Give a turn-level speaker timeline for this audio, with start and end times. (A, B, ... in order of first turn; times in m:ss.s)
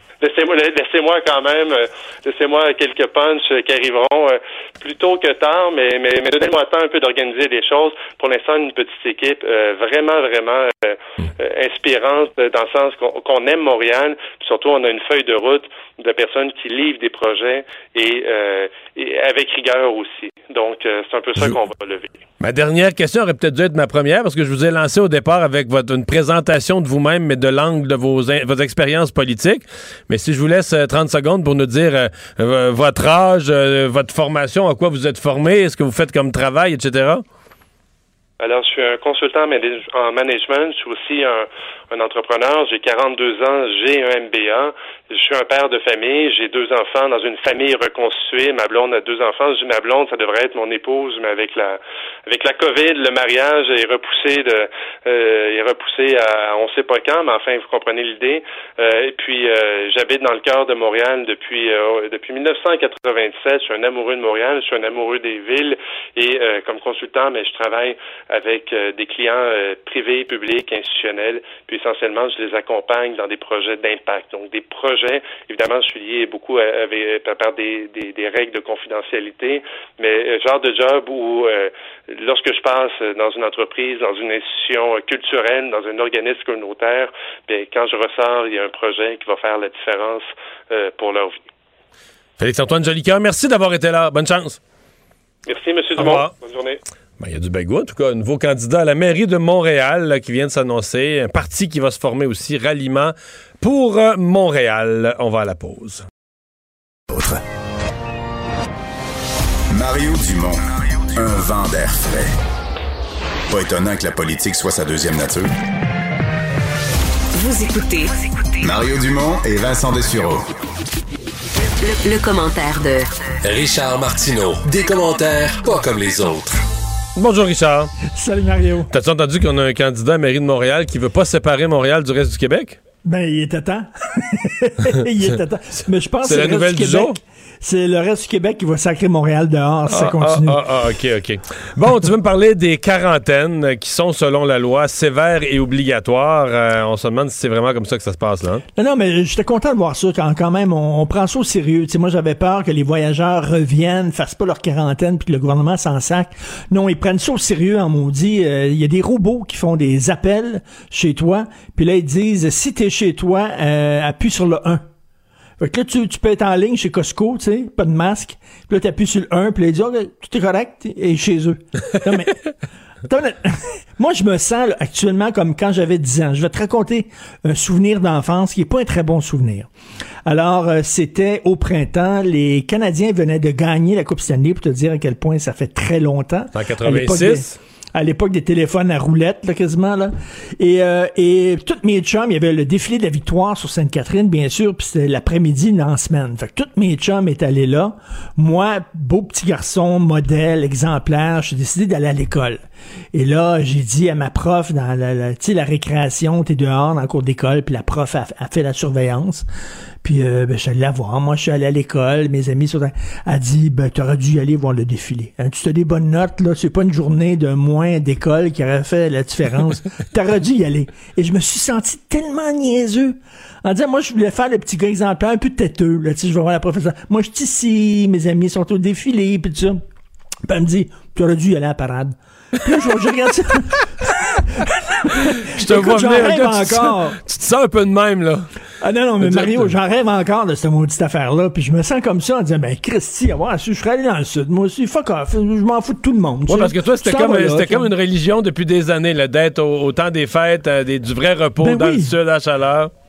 0:00.2-0:22.2 A
0:22.4-0:37.2 B
0:38.4-1:31.4 A
1:32.4-1:34.6 B
1:35.5-1:36.8 A
1:36.0-1:36.3 B
1:37.2-1:46.0 B
1:49.7-1:52.3 C
1:53.5-1:55.5 C
1:57.4-1:58.1 D
1:58.6-2:00.4 C
2:01.8-2:03.1 D
2:03.4-2:06.6 E
2:07.2-2:07.9 B
2:08.1-2:08.9 F
2:08.9-2:12.8 B
2:13.0-2:20.6 F
2:16.2-2:17.2 B
2:19.9-2:28.6 B
2:28.8-2:44.8 F
2:45.6-2:52.5 F
2:53.0-2:59.7 F
3:00.2-3:29.4 F
3:06.5-3:07.5 B
3:30.0-3:49.8 F
3:50.5-3:57.2 F
3:55.5-3:58.5 B
3:58.8-4:07.9 F
3:59.2-3:59.7 B
4:06.5-4:12.9 B
4:11.6-4:12.1 F